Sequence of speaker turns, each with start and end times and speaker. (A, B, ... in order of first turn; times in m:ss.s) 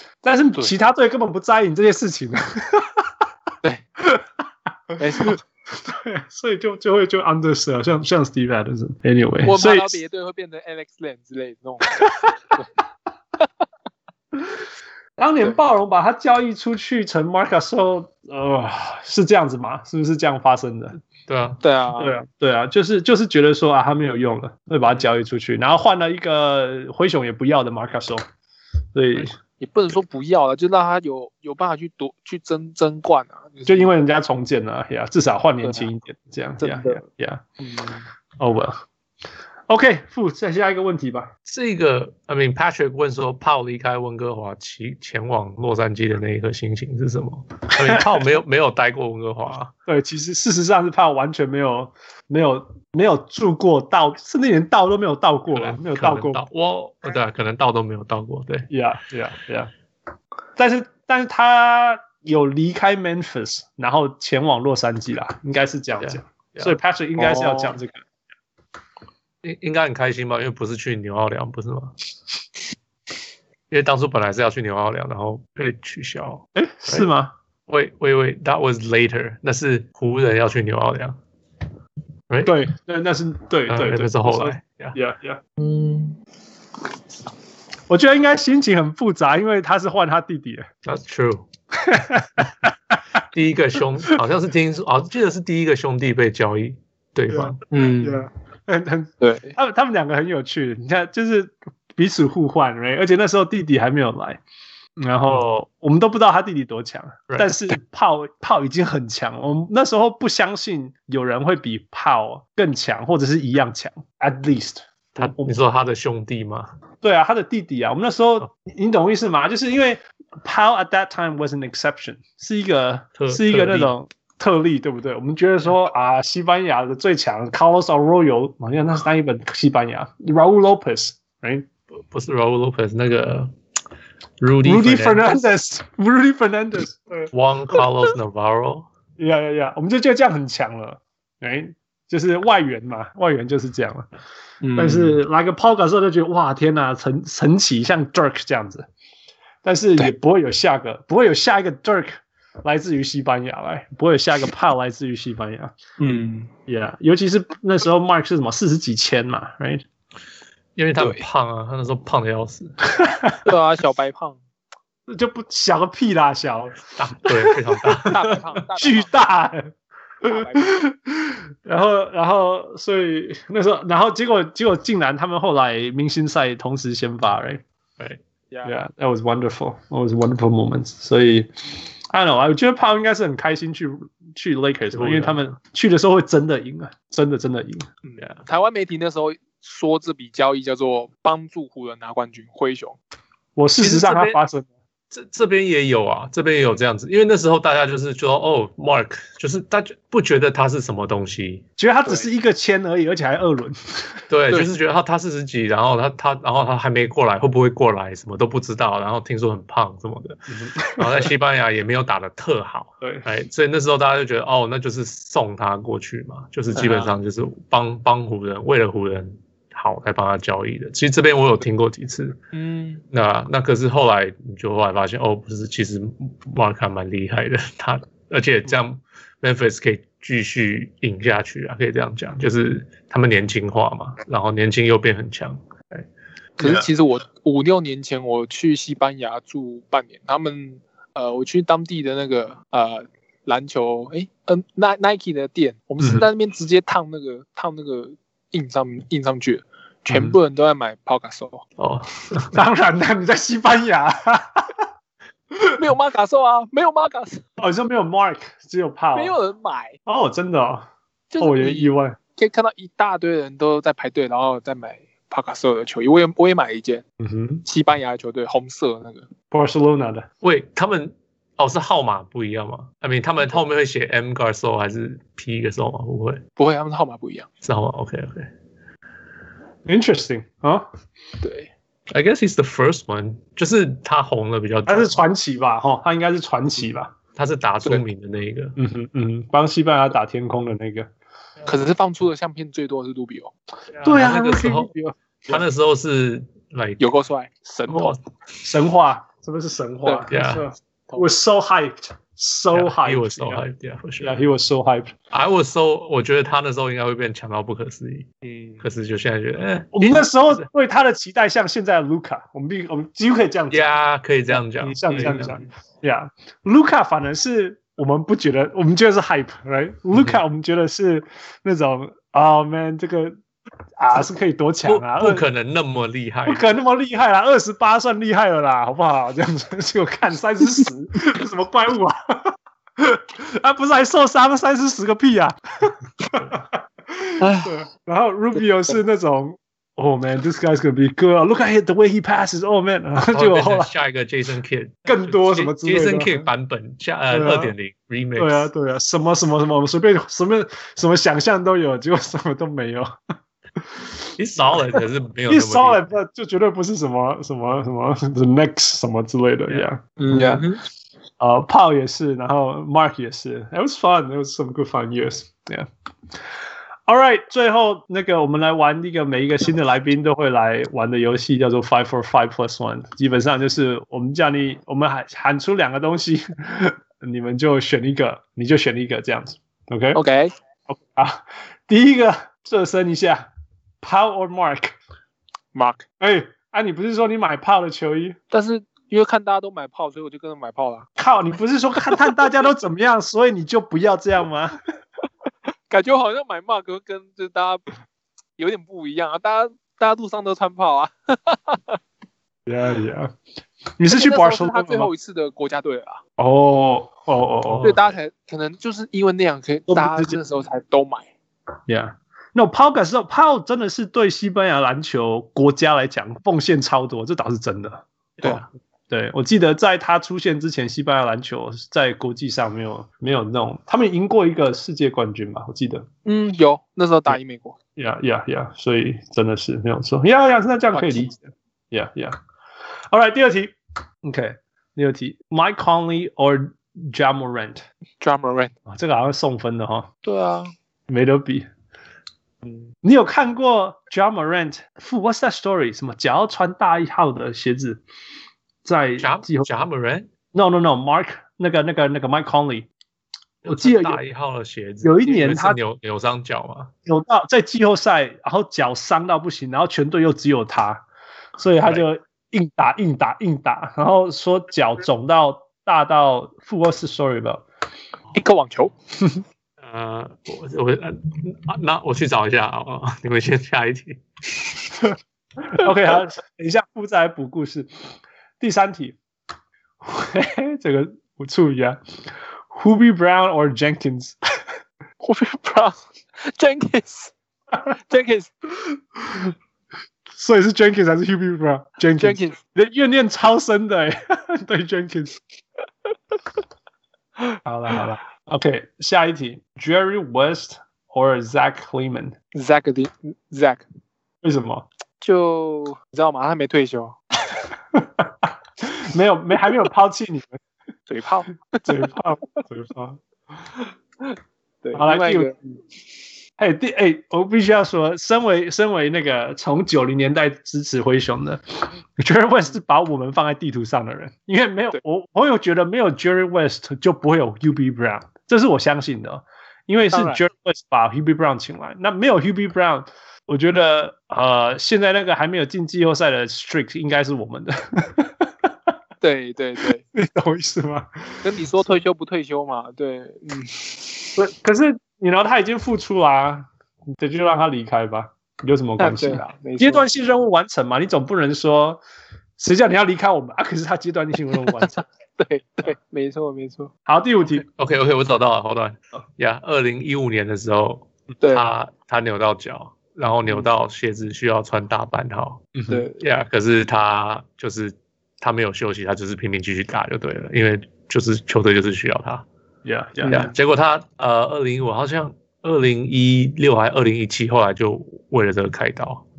0:00.2-0:03.1 A
0:05.0-0:05.4 B
0:05.2-0:10.0 A
0:09.4-0:12.7 B
0:12.0-0:12.3 A
0:14.4-0:14.6 A
0:15.2-0:21.0 A
0:21.3-0:21.6 C
0:21.6-0:22.2 B
0:22.0-0:28.2 A
0:28.9-0:29.3 A
0:29.6-0:33.9 B
0:33.7-0:37.4 A
0:35.6-0:35.9 B
0:36.6-0:37.0 B
0:37.6-0:38.0 B
0:38.4-0:38.8 A
0:39.7-0:41.3 A
0:41.5-0:49.7 C
0:47.8-0:48.3 A
0:49.9-0:56.4 A
0:55.5-0:58.7 C
0:58.7-0:59.7 A
1:00.6-1:08.0 A
1:06.0-1:06.8 C
1:07.2-1:07.8 B
1:09.4-1:11.9 C
1:13.7-1:17.1 C
1:16.6-1:17.3 A
1:17.7-1:21.2 C
1:22.3-1:22.6 C
1:22.4-1:25.4 A
1:23.7-1:25.0 C
1:25.6-1:26.2 B
1:27.9-1:30.7 A
1:30.8-1:31.5 C
1:31.7-1:32.7 A
1:33.3-1:37.6 C
1:37.3-1:44.4 A
1:37.7-1:38.2 B
1:39.2-1:39.6 B
1:45.0-1:55.6 A
1:45.3-1:45.6 C
1:55.2-1:56.7 C
1:57.0-2:11.7 A
2:03.2-2:03.9 C
2:12.1-2:13.5 C
2:14.4-2:15.3 C
2:14.6-2:17.8 A
2:17.3-2:18.9 C
2:19.2-2:24.1 A
2:24.6-2:25.2 B
2:24.8-2:28.9 A
2:29.6-2:35.7 A
2:36.0-2:36.5 B
2:36.7-2:39.8 A
2:40.8-2:42.8 C
2:41.0-2:41.2 B
2:42.9-2:43.4 A
2:43.4-2:44.4 B
2:45.1-2:48.0 A
2:46.9-2:48.4 C
2:48.0-2:49.2 B
2:48.8-2:49.7 A
2:50.2-2:57.6 A
2:50.2-2:50.8 B
2:58.5-2:58.8 B
2:58.6-3:01.5 A
3:02.1-3:07.9 A
3:04.9-3:05.5 C
3:08.0-3:13.0 B
3:13.6-3:14.7 A
3:13.8-3:14.4 C
3:15.1-3:21.7 C
3:21.8-3:24.2 A
3:24.3-3:42.4 C
3:30.5-3:31.3 A
3:33.0-3:33.3 A
3:36.8-3:37.1 B
3:42.5-3:43.0 B
3:43.1-3:56.1 C
3:56.6-4:11.6 B
3:56.6-3:56.9 A
4:11.8-4:12.6 C
4:12.5-4:14.8 A
4:15.8-4:17.5 B
4:17.6-4:19.3 A
4:19.1-4:20.0 B
4:20.1-4:22.2 A
4:21.3-4:27.0 B
4:27.2-4:27.6 A
4:27.6-4:29.3 B
4:29.5-4:30.3 A
4:30.4-4:36.4 C
4:36.6-4:37.5 B
4:37.6-4:38.5 C
4:39.9-4:40.9 A
4:41.4-4:41.7 B
4:42.1-4:45.2 C
4:44.9-4:47.1 A
4:47.4-4:48.8 C
4:48.8-4:51.1 A
4:51.7-4:53.5 B
4:53.9-4:54.9 C
4:54.0-4:55.6 A
4:55.5-4:57.0 C
4:57.0-4:58.2 B
4:57.9-4:58.2 C
4:58.6-5:03.6 A
5:00.3-5:00.6 C
5:02.7-5:04.4 C
5:04.2-5:05.1 A
5:05.3-5:08.3 C
5:08.4-5:08.8 B
5:08.8-5:10.7 C
5:09.9-5:13.9 A
5:13.7-5:15.6 C
5:14.6-5:23.4 A
5:15.1-5:15.6 B
5:20.2-5:20.4 C
5:24.0-5:25.4 A
5:24.9-5:26.7 C
5:26.5-5:43.9 A
5:37.4-5:37.7 B
5:43.3-5:48.7 C
5:45.1-5:46.4 A
5:47.3-5:47.7 A
5:48.4-5:53.1 A
5:54.4-5:56.0 C
5:55.5-6:00.6 A
6:00.2-6:00.8 B
6:01.4-6:05.9 A
6:07.1-6:20.2 A
6:20.1-6:20.5 B
6:20.9-6:23.5 A
6:24.0-6:25.0 A
6:25.7-6:26.1 B
6:26.2-6:28.4 A
6:28.5-6:31.1 B
6:31.2-6:34.8 A
6:32.1-6:32.4 B
6:35.9-6:37.8 B
6:38.6-6:42.0 B
6:42.7-6:43.3 A
6:44.0-6:45.1 A
6:44.1-6:46.2 B
6:46.4-6:48.0 A
6:47.6-6:48.0 C
6:47.8-6:51.3 B
6:49.9-6:50.4 A
6:51.9-6:58.0 A
6:58.4-6:58.7 C
6:59.1-7:06.1 A
7:06.2-7:07.8 B
7:08.0-7:12.4 A
7:10.9-7:11.3 B
7:13.1-7:17.8 A
7:18.2-7:18.7 B
7:18.9-7:20.1 A
7:20.2-7:20.7 B
7:21.1-7:21.7 A
7:23.0-7:28.0 A
7:28.8-7:29.7 A
7:29.2-7:30.3 C
7:30.5-7:32.9 A
7:33.6-7:36.9 C
7:33.7-7:34.2 A
7:35.0-7:35.8 A
7:37.1-7:41.0 A
7:41.6-7:47.6 A
7:48.3-7:48.9 B
7:49.8-7:54.2 C
7:55.0-7:58.1 A
7:58.6-7:59.2 A
8:00.0-8:02.0 A
8:02.7-8:04.4 A
8:05.2-8:07.3 B
8:07.9-8:08.5 B
8:08.8-8:09.5 A
8:10.3-8:15.4 A
8:12.2-8:12.6 B
8:17.6-8:22.4 A
8:22.5-8:23.8 B
8:24.4-8:24.9 A
8:25.2-8:27.2 B
8:27.9-8:30.6 A
8:31.1-8:32.1 B
8:31.8-8:33.2 A
8:34.2-8:35.6 B
8:35.0-8:35.5 A
8:36.6-8:58.7 A
8:50.1-8:50.4 B
8:59.2-9:00.0 B
9:00.1-9:01.9 A
9:01.4-9:04.4 B
9:04.4-9:12.0 A
9:09.0-9:10.0 B
9:12.6-9:15.0 A
9:14.8-9:16.9 B
9:17.1-9:17.6 A
9:17.6-9:32.5 C
9:21.4-9:21.7 B
9:25.8-9:26.0 A
9:25.9-9:26.2 B
9:32.8-9:33.5 A
9:33.2-9:33.5 B
9:33.2-9:39.2 C